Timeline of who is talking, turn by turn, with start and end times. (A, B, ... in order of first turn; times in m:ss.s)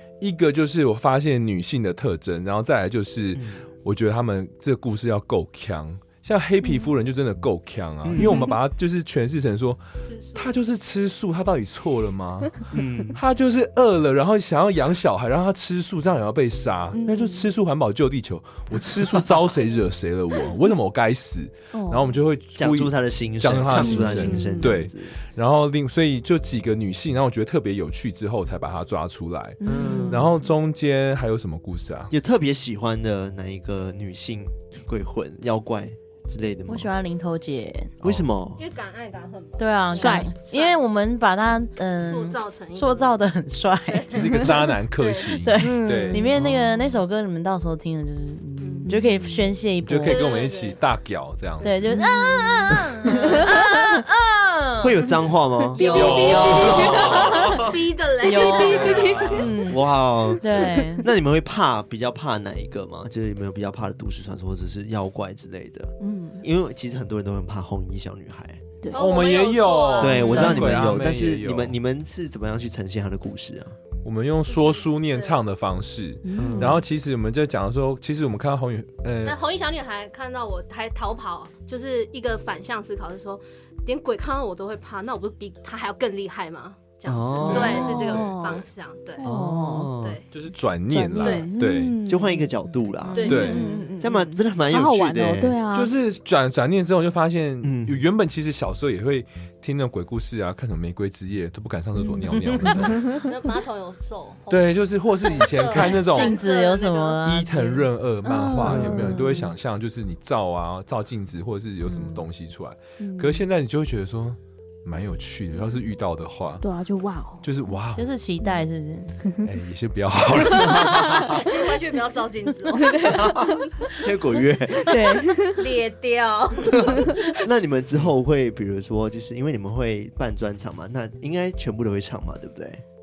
0:00.2-0:09.8 A
0:03.3-0:03.6 B
0:06.6-0:06.9 C
0:08.0-0:08.4 B
0:08.1-0:08.6 C
0:10.0-0:10.5 D
0:10.3-0:32.1 A
0:12.7-0:13.2 B
0:16.9-0:17.5 C
0:21.7-0:22.2 C
0:22.6-0:25.1 B
0:23.7-0:24.8 C
0:29.6-0:30.4 C
0:29.6-0:30.3 B
0:32.1-0:36.9 B
0:36.7-0:37.9 E
0:38.0-0:38.6 B
0:38.6-0:40.8 D
0:39.6-0:44.5 E
0:39.9-0:40.3 C
0:42.0-0:43.2 D
0:43.9-0:45.4 D
0:44.1-0:46.4 A
0:45.4-0:50.2 E
0:45.8-0:46.4 C
0:46.3-0:46.6 B
0:48.6-0:48.9 D
0:48.8-0:49.2 C
0:49.8-0:51.8 A
0:50.0-0:50.8 D
0:51.6-0:52.0 D
0:51.6-0:55.1 E
0:52.0-0:52.5 C
0:53.3-0:53.8 C
0:54.8-0:57.7 B
0:55.7-0:57.3 E
0:55.7-0:59.4 D
0:55.9-0:57.3 A
0:56.7-0:57.6 C
0:58.2-1:01.1 E
0:58.3-0:59.6 C
0:58.9-0:59.5 A
0:59.4-1:08.6 B
1:06.0-1:06.4 C
1:08.9-1:10.6 D
1:08.9-1:11.8 A
1:10.0-1:13.8 B
1:10.1-1:10.6 C
1:14.0-1:19.4 A
1:14.5-1:15.4 D
1:16.2-1:16.8 C
1:16.4-1:16.8 B
1:19.2-1:29.2 D
1:27.0-1:28.0 B
1:27.4-1:28.6 A
1:27.5-1:28.6 C
1:29.2-1:30.0 C
1:29.2-1:30.2 B
1:30.0-1:30.2 D
1:30.3-1:32.0 A
1:30.9-1:32.6 C
1:31.2-1:31.5 D
1:32.0-1:33.4 B
1:33.0-1:33.8 E
1:33.1-1:33.8 D
1:33.2-1:35.9 C
1:33.3-1:33.6 A
1:34.0-1:35.6 B
1:35.7-1:43.2 A
1:37.6-1:38.0 B
1:42.0-1:43.3 C
1:42.4-1:42.8 E
1:43.0-1:47.2 D
1:44.5-1:46.4 A
1:45.7-1:47.9 E
1:47.2-1:56.6 A
1:48.2-1:49.5 C
1:48.7-1:49.0 B
1:51.9-1:52.2 E
1:53.0-1:53.4 C
1:56.6-1:57.5 C
1:57.4-1:58.1 A
1:58.0-1:59.2 E
1:59.4-2:01.0 A
2:00.4-2:01.4 B
2:00.5-2:01.3 C
2:01.2-2:03.3 D
2:02.7-2:03.6 C
2:03.0-2:05.3 B
2:04.8-2:05.7 C
2:05.5-2:07.4 D
2:06.7-2:12.8 B